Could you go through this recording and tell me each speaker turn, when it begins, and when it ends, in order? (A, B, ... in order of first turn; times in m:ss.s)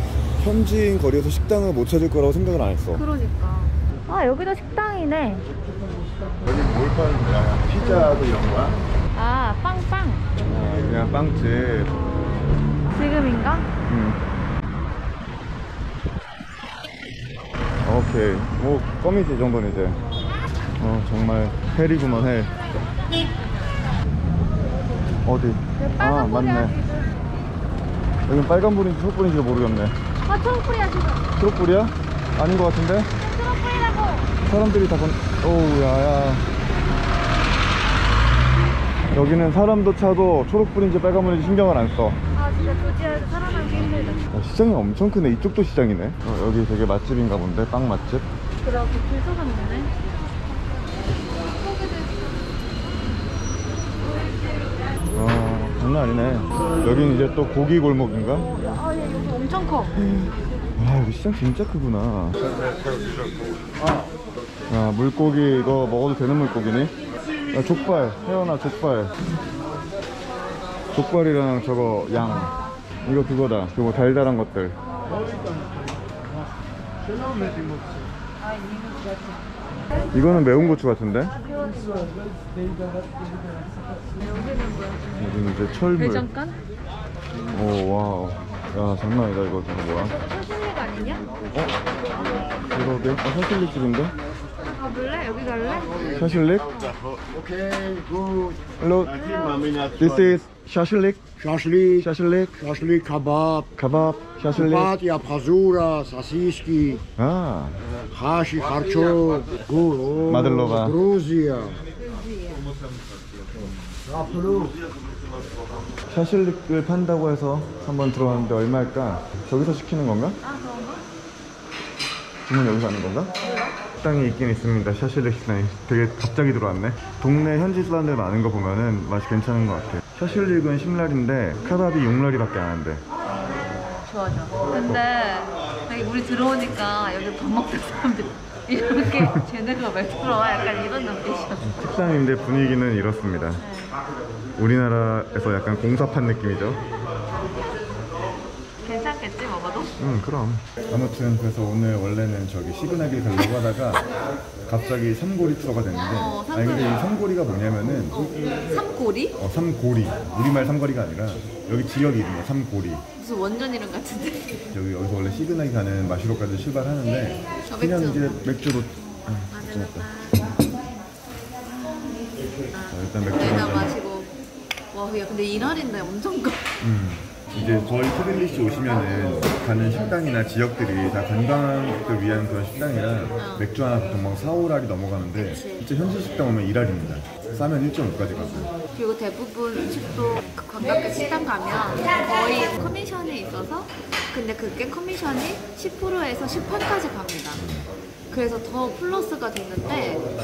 0:00.4-0:03.0 A
0:02.9-0:05.5 B
0:06.4-0:08.8 A
0:07.8-0:08.5 B
0:09.1-0:10.3 B
0:10.4-0:11.9 A
0:11.9-0:13.7 B
0:13.9-0:14.2 A
0:17.8-0:20.0 A
0:20.8-0:22.5 A
0:25.2-0:26.8 A
0:25.8-0:27.1 B
0:28.3-0:30.0 A
0:30.2-0:31.3 B
0:31.4-0:33.1 A
0:33.2-0:34.3 B
0:34.4-0:36.4 A
0:39.1-0:42.2 A
0:42.3-0:44.3 B
0:44.3-0:48.2 A
0:48.6-0:49.9 B
0:51.4-0:52.3 B
0:55.1-0:58.5 A
0:58.3-1:00.0 B
0:59.9-1:02.4 A
1:04.7-1:06.9 A
1:07.5-1:09.2 A
1:10.9-1:14.8 A
1:12.2-1:12.8 B
1:14.8-1:15.7 B
1:20.1-1:21.3 A
1:21.4-1:22.1 B
1:24.0-1:25.2 B
1:25.2-1:26.3 A
1:25.9-1:26.6 B
1:27.5-1:30.1 A
1:30.0-1:32.6 B
1:32.7-1:34.1 A
1:34.6-1:37.0 B
1:36.1-1:36.7 A
1:37.1-1:38.6 C
1:38.8-1:39.2 A
1:39.1-1:39.9 B
1:40.0-1:41.2 A
1:41.4-1:42.1 C
1:42.0-1:42.6 A
1:42.6-1:43.7 C
1:43.8-1:44.9 A
1:44.6-1:47.0 C
1:47.2-1:47.8 A
1:48.0-1:51.8 C
1:50.2-1:51.0 A
1:52.0-1:52.7 B
1:54.1-1:54.7 C
1:56.1-2:00.4 A
2:00.4-2:01.0 B
2:02.4-2:03.3 A
2:03.4-2:03.7 B
2:04.0-2:13.0 A
2:13.9-2:21.7 B
2:21.6-2:23.6 A
2:23.6-2:24.0 B
2:24.6-2:26.8 A
2:27.3-2:27.8 B
2:28.8-2:30.0 B
2:30.0-2:34.1 A
2:34.6-2:38.2 A
2:36.1-2:37.0 B
2:38.1-2:39.4 B
2:39.4-2:43.0 A
2:43.2-2:44.6 B
2:44.7-2:50.1 A
2:47.6-2:48.4 B
2:49.5-2:50.6 B
2:51.8-2:54.3 B
2:52.9-2:54.0 A
2:54.9-2:56.7 B
2:56.8-3:08.7 A
2:57.6-2:57.9 B
3:03.4-3:03.7 B
3:05.3-3:05.9 B
3:08.8-3:17.6 B
3:17.5-3:17.9 A
3:18.3-3:20.2 B